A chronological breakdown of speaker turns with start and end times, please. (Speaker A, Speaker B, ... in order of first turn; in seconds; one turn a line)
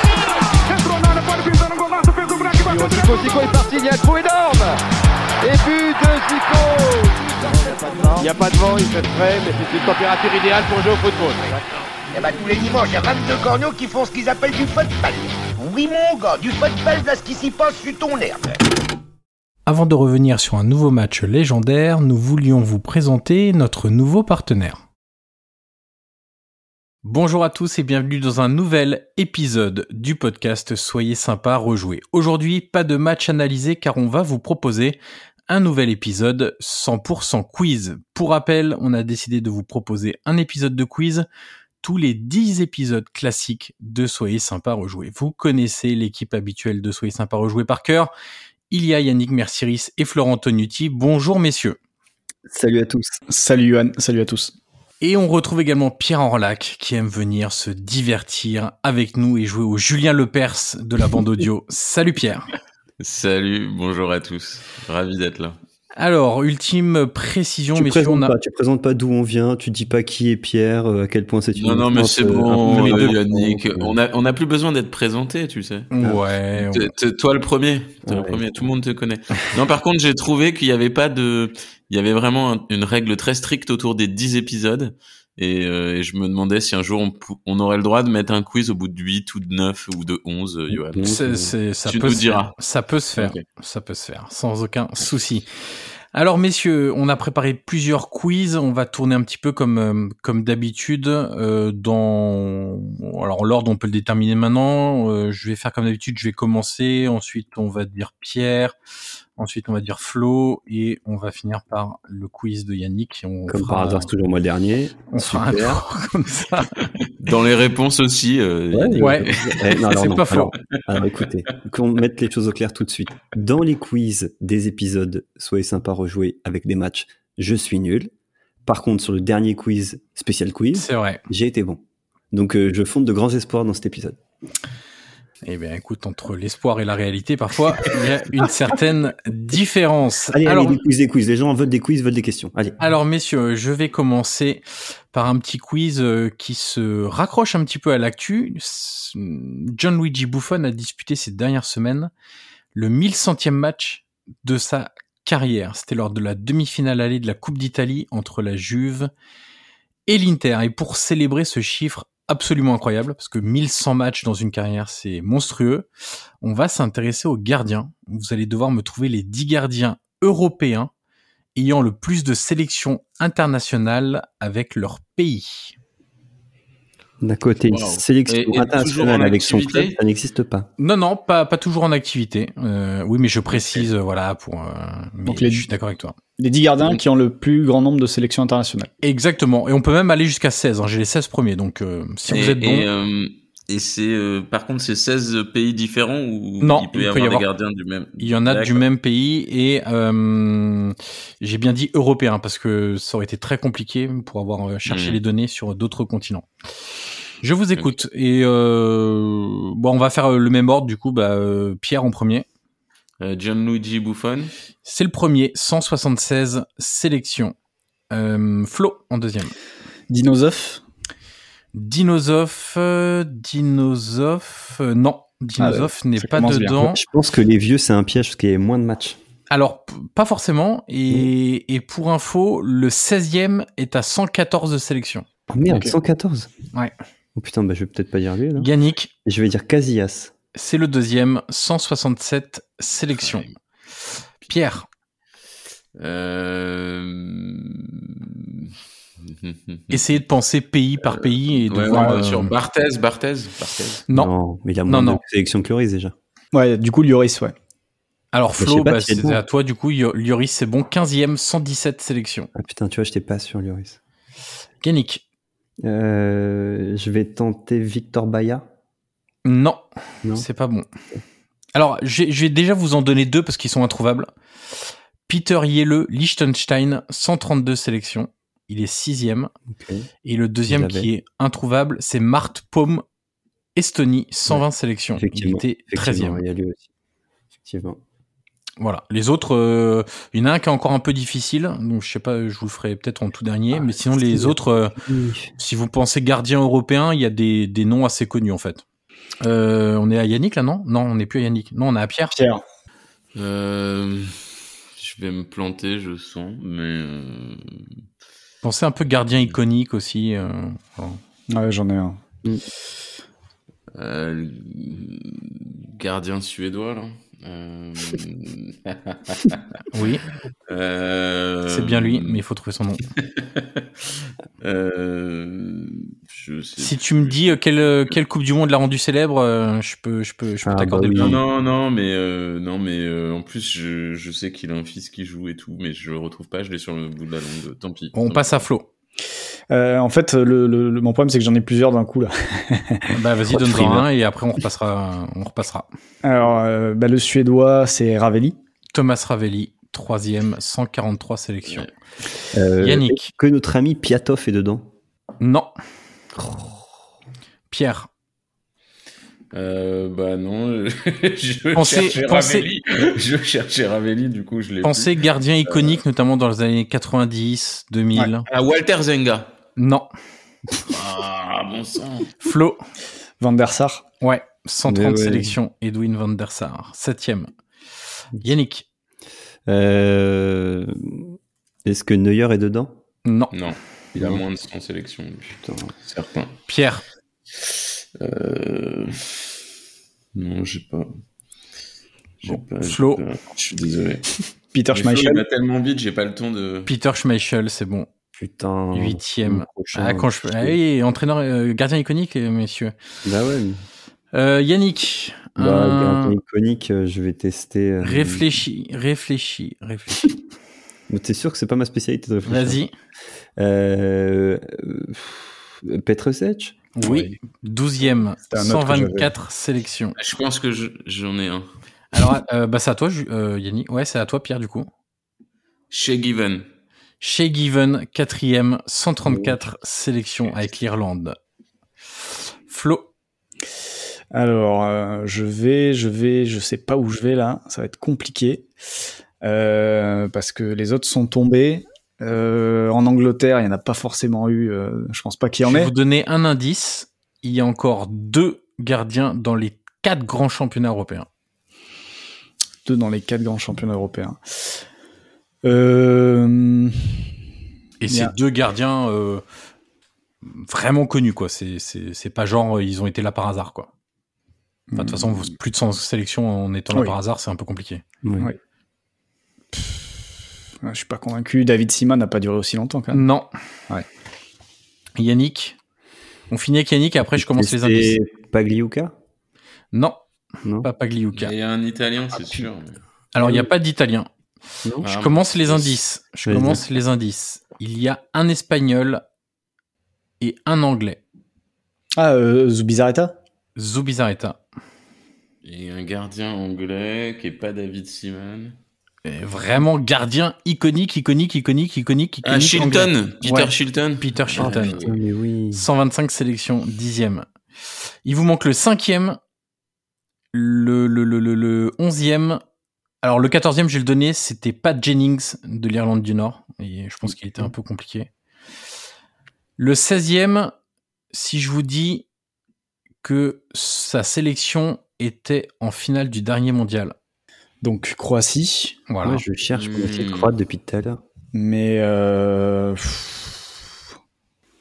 Speaker A: 0.5-4.8
Speaker A: 5.4-11.8
Speaker B: 12.1-18.6
Speaker C: 19.6-24.8
Speaker C: 27.0-35.0
Speaker C: 35.5-41.2
Speaker C: 41.8-48.1
Speaker C: 48.7-51.8
Speaker D: 52.5-53.2
Speaker E: 53.3-54.5
Speaker C: 55.0-62.5
Speaker F: 63.0-65.6
Speaker C: 66.0-68.3
Speaker D: 67.7-74.0
Speaker F: 71.5-75.9
Speaker C: 72.6-73.1
Speaker C: 75.9-76.9
Speaker F: 76.6-91.2
Speaker D: 78.0-78.7
Speaker D: 90.7-91.5
Speaker C: 91.0-95.5
Speaker F: 91.8-92.5
Speaker F: 93.2-93.4
Speaker C: 96.1-108.7
Speaker C: 109.4-114.1
Speaker D: 113.5-115.8
Speaker C: 115.1-116.8
Speaker F: 117.1-119.9
Speaker D: 118.7-128.1
Speaker C: 119.0-119.3
Speaker C: 119.9-120.5
Speaker D: 128.7-131.8
Speaker C: 130.7-131.2
Speaker D: 132.3-134.2
Speaker C: 135.4-140.8
Speaker D: 140.3-142.8
Speaker C: 142.8-152.1
Speaker C: 152.7-159.1
Speaker C: 160.1-165.9
Speaker C: 166.4-170.9
Speaker C: 171.6-175.7
Speaker D: 177.2-180.7
Speaker F: 177.7-180.0
Speaker C: 180.8-186.2
Speaker F: 183.5-183.9
Speaker E: 185.2-185.7
Speaker E: 186.4-188.9
Speaker C: 189.0-192.9
Speaker F: 192.3-198.8
Speaker C: 196.6-197.4
Speaker C: 198.2-206.5
Speaker F: 204.8-205.2
Speaker C: 207.4-212.4
Speaker F: 213.2-214.5
Speaker C: 214.8-217.5
Speaker C: 218.1-219.5
Speaker E: 220.1-220.8
Speaker C: 221.7-227.0
Speaker E: 225.6-226.8
Speaker D: 226.7-229.2
Speaker C: 229.5-235.2
Speaker D: 235.5-236.5
Speaker E: 235.7-235.9
Speaker D: 237.3-238.7
Speaker C: 238.6-239.1
Speaker D: 239.2-240.3
Speaker C: 240.5-243.5
Speaker C: 244.4-244.9
Speaker F: 246.0-248.7
Speaker F: 249.2-250.2
Speaker C: 249.9-252.5
Speaker F: 251.1-254.0
Speaker D: 254.1-256.1
Speaker C: 254.9-255.2
Speaker E: 256.5-257.5
Speaker C: 258.3-262.5
Speaker D: 258.6-259.4
Speaker D: 262.5-264.0
Speaker C: 264.8-265.2
Speaker D: 265.8-268.6
Speaker C: 269.4-270.9
Speaker C: 271.7-279.5
Speaker D: 279.7-280.1
Speaker C: 280.2-283.0
Speaker D: 280.7-281.1
Speaker C: 283.8-286.4
Speaker D: 285.1-286.9
Speaker D: 287.6-288.0
Speaker C: 288.8-294.9
Speaker D: 293.7-295.5
Speaker C: 295.6-298.8
Speaker C: 299.4-302.3
Speaker E: 302.3-302.6
Speaker F: 303.4-307.8
Speaker C: 308.6-311.2
Speaker E: 311.5-312.2
Speaker F: 313.9-319.8
Speaker C: 319.9-320.2
Speaker F: 320.7-322.4
Speaker C: 321.7-323.0
Speaker F: 323.1-323.8
Speaker F: 324.6-327.5
Speaker C: 326.8-331.4
Speaker D: 330.6-331.4
Speaker F: 331.1-338.5
Speaker C: 338.1-338.9
Speaker E: 339.7-344.0
Speaker C: 343.1-345.9
Speaker D: 343.6-344.0
Speaker E: 346.2-348.6
Speaker C: 348.9-351.9
Speaker D: 352.5-354.9
Speaker C: 352.8-353.3
Speaker C: 355.4-355.7
Speaker C: 357.7-358.1
Speaker F: 359.5-365.2
Speaker C: 361.7-362.7
Speaker C: 364.8-368.4
Speaker F: 365.7-366.0
Speaker F: 368.5-369.5
Speaker C: 369.8-370.1
Speaker F: 370.8-372.3
Speaker C: 372.4-372.8
Speaker E: 373.4-374.0
Speaker C: 374.2-377.5
Speaker D: 374.9-375.5
Speaker C: 378.4-378.9
Speaker D: 379.6-382.9
Speaker C: 383.2-383.5
Speaker F: 383.5-386.6
Speaker D: 384.2-384.4
Speaker D: 385.6-385.9
Speaker C: 386.7-387.0
Speaker F: 387.6-389.4
Speaker F: 390.3-391.1
Speaker F: 392.4-394.3
Speaker C: 392.5-393.2
Speaker E: 394.7-395.4
Speaker F: 394.9-396.9
Speaker C: 396.9-398.1
Speaker D: 398.3-400.8
Speaker C: 398.9-402.9
Speaker D: 403.2-403.8
Speaker C: 404.3-406.4
Speaker D: 405.6-408.6
Speaker C: 408.0-410.3
Speaker D: 411.1-412.8
Speaker C: 412.4-412.9
Speaker D: 413.6-416.8
Speaker C: 416.9-420.1
Speaker E: 417.0-417.3
Speaker E: 418.5-419.3
Speaker F: 420.2-421.7
Speaker C: 422.1-424.9
Speaker F: 425.9-426.6
Speaker C: 427.2-431.4
Speaker C: 432.7-433.1
Speaker E: 434.3-438.7
Speaker E: 439.4-445.9
Speaker C: 445.6-451.3
Speaker E: 452.8-454.7
Speaker E: 455.6-456.9
Speaker C: 458.0-459.4
Speaker C: 460.4-463.9
Speaker E: 464.9-465.2
Speaker C: 464.9-468.0
Speaker D: 468.2-468.5
Speaker E: 469.7-470.0
Speaker E: 470.8-473.2
Speaker C: 473.1-473.5
Speaker C: 475.2-475.8
Speaker C: 476.5-478.2
Speaker D: 477.3-479.1
Speaker C: 479.9-480.2
Speaker D: 480.6-480.9
Speaker C: 480.8-481.5
Speaker F: 481.4-483.0
Speaker C: 483.3-484.3
Speaker D: 483.4-483.7
Speaker F: 485.0-486.0
Speaker C: 485.0-489.2
Speaker D: 486.5-486.8
Speaker C: 490.4-491.2
Speaker E: 492.2-493.3
Speaker C: 493.8-494.6
Speaker F: 495.6-498.8
Speaker C: 499.2-505.1
Speaker F: 502.4-505.1
Speaker D: 504.6-505.9
Speaker C: 505.7-507.5
Speaker C: 508.2-509.4
Speaker C: 510.5-512.6
Speaker C: 513.2-518.3
Speaker C: 519.8-520.7
Speaker C: 521.3-522.2
Speaker C: 523.2-527.1
Speaker E: 527.8-529.0
Speaker C: 529.1-529.4
Speaker D: 529.2-531.2
Speaker F: 529.7-530.5
Speaker E: 531.5-533.6